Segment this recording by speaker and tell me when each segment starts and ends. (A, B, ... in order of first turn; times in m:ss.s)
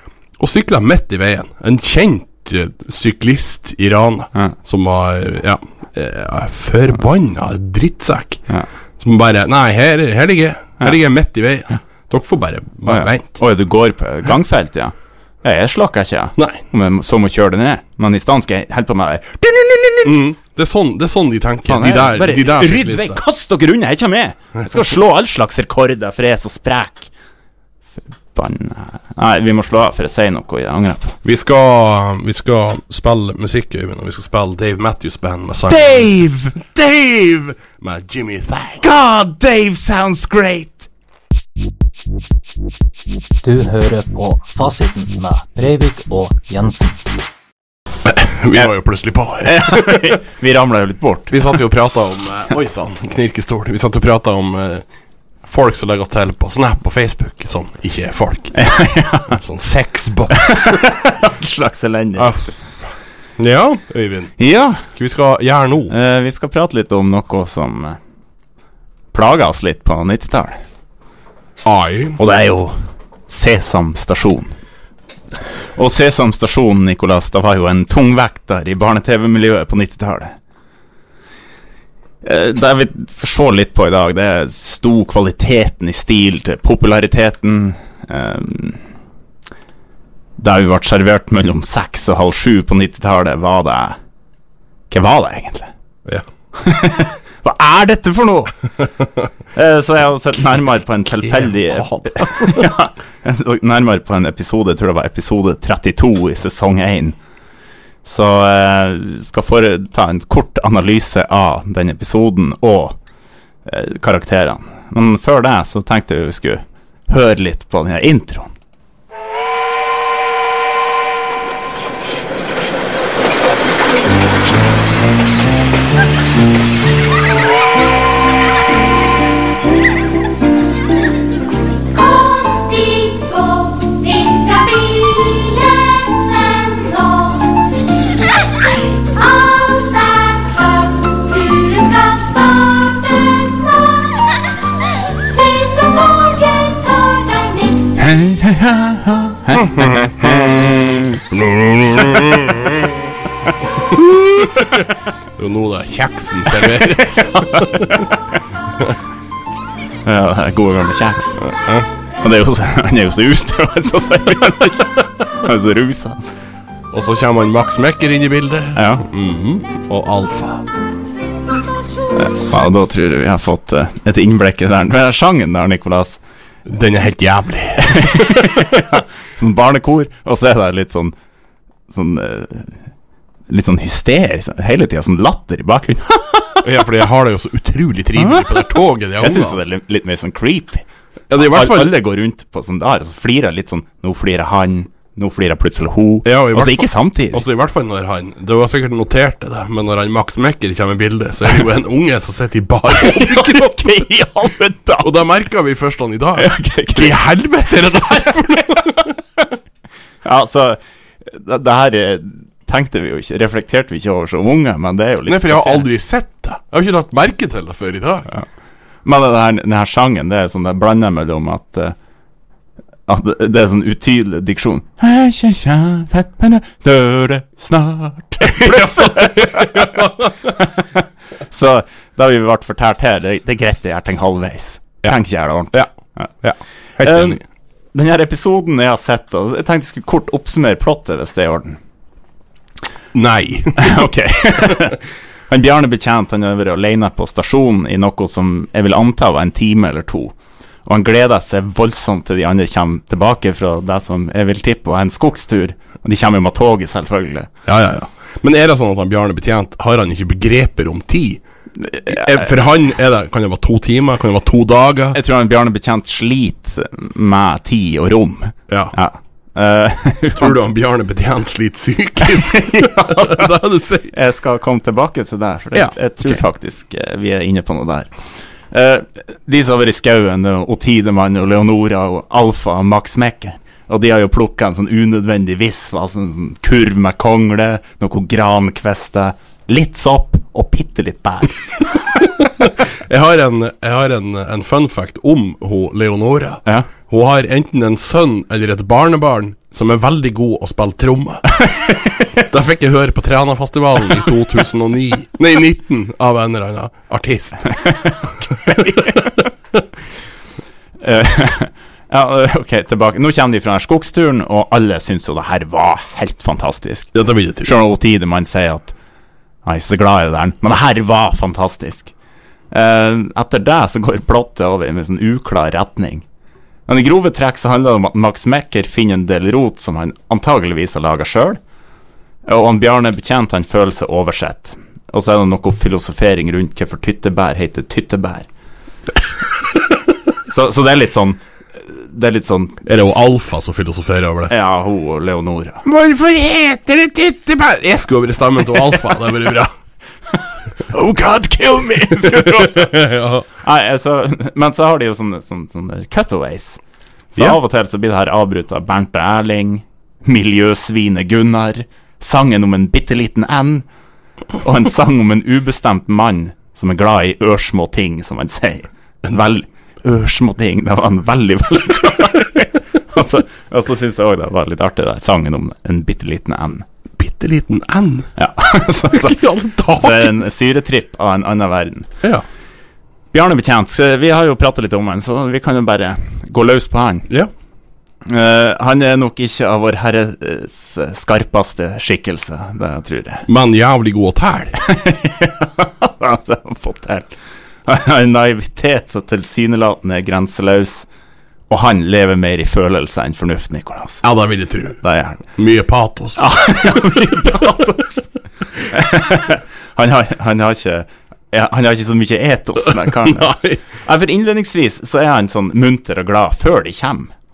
0:00.4-0:08.4 A
0:09.0-0:13.4 A
0:12.8-0:20.2 B
0:16.4-0:16.6 A
0:20.0-0:23.2 A
0:21.7-0:27.1 B
0:28.3-0:31.2 B
0:31.2-0:36.1 A
0:35.7-0:36.7 B
0:36.6-0:38.8 A
0:38.8-0:40.9 B
0:43.4-0:47.0 C
0:48.0-0:50.1 A
0:49.4-0:51.4 B
0:51.3-0:54.9 A
0:55.4-0:58.6 A
0:58.6-0:59.4 B
0:59.3-1:00.8 A
1:00.3-1:02.5 B
1:02.2-1:02.5 A
1:03.4-1:05.9 A
1:04.4-1:04.8 B
1:05.9-1:08.0 B
1:09.1-1:10.6 B
1:11.6-1:12.2 A
1:12.2-1:12.8 B
1:13.3-1:14.5 B
1:15.8-1:20.3 B
1:22.2-1:28.8 B
1:30.4-1:34.0 B
1:34.9-1:35.7 B
1:36.6-1:38.6 B
1:39.5-1:47.2 B
1:41.2-1:42.7 A
1:48.0-1:53.0 B
1:53.7-1:58.5 B
2:11.9-2:28.0 D
2:28.0-2:31.2 B
2:29.5-2:30.7 A
2:31.3-2:33.0 A
2:33.9-2:34.9 A
2:34.4-2:34.7 B
2:35.4-2:38.1 A
2:37.5-2:38.1 B
2:40.0-2:41.4 B
2:41.4-2:41.9 A
2:42.2-2:46.2 B
2:46.9-2:50.7 A
2:48.8-2:49.0 B
2:52.2-2:56.2 B
2:56.7-2:58.6 A
2:57.8-3:01.2 B
3:01.9-3:02.8 B
3:03.5-3:06.7 B
3:06.6-3:09.6 A
3:08.2-3:17.4 B
3:11.3-3:12.0 A
3:16.2-3:23.8 A
3:22.9-3:25.1 B
3:25.0-3:29.2 A
3:26.4-3:27.2 B
3:30.2-3:35.9 B
3:35.3-3:38.3 A
3:39.0-3:42.0 B
3:43.1-3:56.3 B
3:48.5-3:50.5 A
3:56.4-3:57.4 A
3:57.0-3:57.4 B
3:57.9-4:01.8 B
4:03.1-4:04.1 A
4:03.8-4:10.3 B
4:10.8-4:17.5 B
4:17.7-4:21.4 A
4:21.8-4:22.5 B
4:22.1-4:25.2 A
4:25.1-4:30.7 B
4:28.7-4:29.0 A
4:30.4-4:34.1 A
4:32.2-4:33.6 B
4:34.1-4:38.1 B
4:35.7-4:36.4 A
4:38.7-4:52.0 B
4:52.6-5:01.5 A
5:01.5-5:02.5 B
5:02.5-5:07.7 A
5:07.7-5:09.5 B
5:08.7-5:09.2 A
5:11.0-5:19.0 B
5:17.1-5:17.7 A
5:19.6-5:22.1 B
5:22.7-5:26.2 B
5:26.9-5:31.6 B
5:32.5-5:38.5 B
5:40.4-5:43.2 B
5:42.9-5:44.5 A
5:44.5-5:45.8 B
5:45.8-5:49.7 A
5:50.3-5:53.0 B
5:52.1-5:53.5 A
5:53.6-5:56.8 B
5:57.3-6:03.8 B
6:04.6-6:16.9 B
6:17.2-6:18.3 A
6:18.4-6:22.1 B
6:19.1-6:20.4 A
6:23.3-6:27.3 B
6:28.3-6:33.5 B
6:33.5-6:34.8 A
6:34.8-6:37.4 B
6:37.9-6:41.1 B
6:41.7-6:44.2 B
6:44.2-6:47.0 A
6:45.0-6:45.4 B
6:46.4-6:57.3 B
6:52.9-6:53.8 A